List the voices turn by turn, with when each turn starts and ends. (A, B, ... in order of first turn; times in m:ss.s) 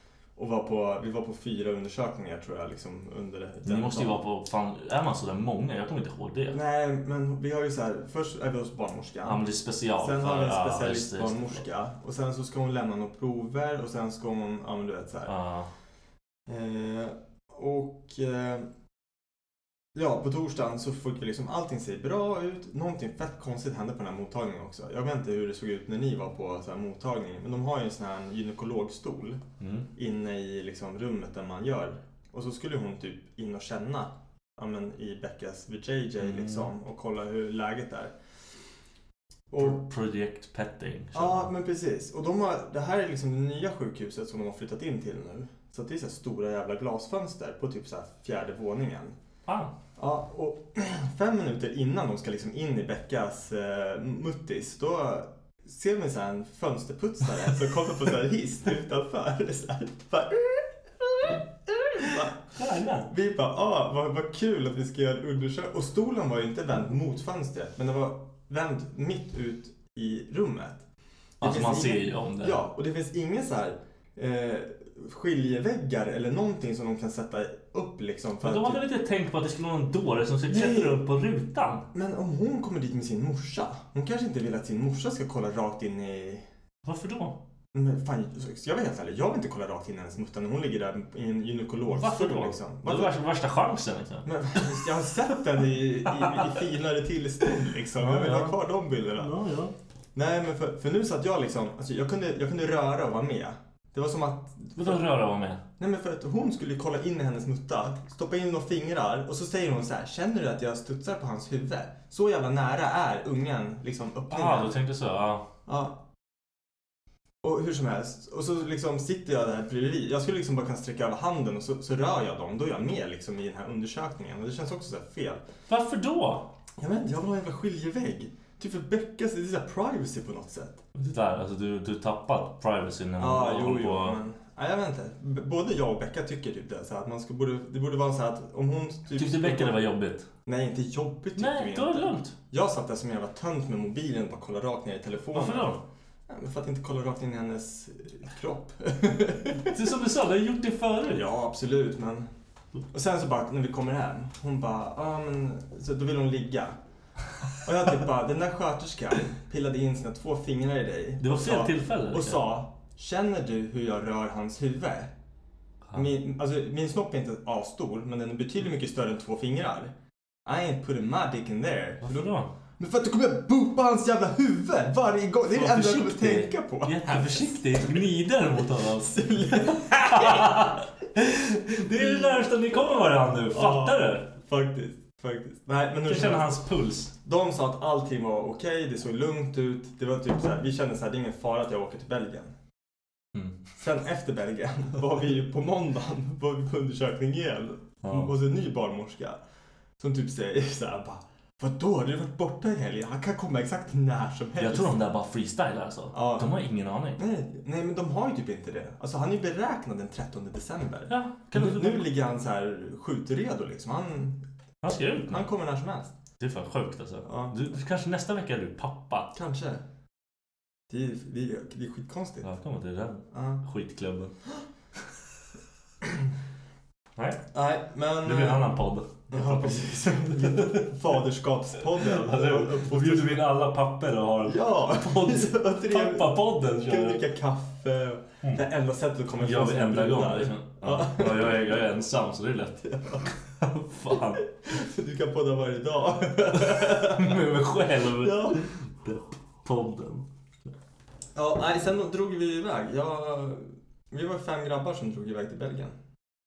0:00.4-0:04.2 A
0:03.6-0:06.6 B
0:06.5-0:09.4 A
0:09.2-0:11.6 B
0:10.0-0:15.3 A
0:15.2-0:15.7 B
0:16.5-0:18.7 A
0:19.9-0:29.4 A
0:29.6-0:29.9 B
0:30.0-0:38.1 A
0:36.2-0:36.7 B
0:39.5-0:39.8 A
0:39.6-0:41.5 B
0:41.1-0:49.1 A
0:49.5-0:49.7 B
0:50.0-1:02.5 A
1:02.0-1:03.1 B
1:03.1-1:10.8 A
1:11.4-1:12.6 B
1:11.4-1:18.8 A
1:18.4-1:21.8 B
1:20.5-1:21.0 A
1:21.9-1:26.4 A
1:26.8-1:27.4 B
1:27.7-1:33.2 A
1:31.9-1:34.8 B
1:34.2-1:39.3 A
1:38.0-1:38.6 B
1:39.2-1:39.7 B
1:40.1-1:45.0 A
1:44.8-1:45.6 B
1:45.8-1:54.8 A
1:54.3-1:55.4 B
1:55.7-1:56.0 A
1:57.4-2:05.4 A
2:05.7-2:06.5 B
2:06.8-2:10.8 A
2:10.9-2:14.2 B
2:13.2-2:19.8 A
2:19.1-2:20.3 B
2:20.4-2:29.8 A
2:21.4-2:22.3 B
2:25.3-2:25.8 B
2:29.6-2:31.2 B
2:31.1-2:32.3 A
2:32.9-2:36.8 A
2:37.5-2:45.1 A
2:41.2-2:42.4 B
2:45.9-2:49.9 A
2:50.4-2:57.6 A
2:52.0-2:52.5 B
2:55.5-3:04.3 B
2:58.6-3:00.6 A
3:01.9-3:06.6 A
3:06.0-3:07.1 B
3:07.2-3:12.5 A
3:13.8-3:19.4 A
3:18.0-3:18.3 B
3:20.0-3:25.1 A
3:24.6-3:27.2 B
3:26.1-3:26.6 A
3:27.2-3:34.4 A
3:31.1-3:32.1 B
3:34.8-3:35.5 B
3:35.3-3:36.1 A
3:36.4-3:39.3 B
3:37.2-3:37.5 A
3:39.3-3:39.8 A
3:40.9-3:42.5 A
3:42.4-3:44.3 B
3:43.3-3:43.6 A
3:47.2-3:47.4 B
3:47.5-3:48.6 A
3:48.2-3:50.9 B
3:49.3-3:53.5 A
3:52.0-3:57.2 B
3:54.4-4:01.8 A
3:59.4-4:04.4 B
4:02.8-4:03.3 A
4:04.6-4:07.4 A
4:06.6-4:10.3 B
4:08.2-4:08.6 A
4:11.3-4:15.9 A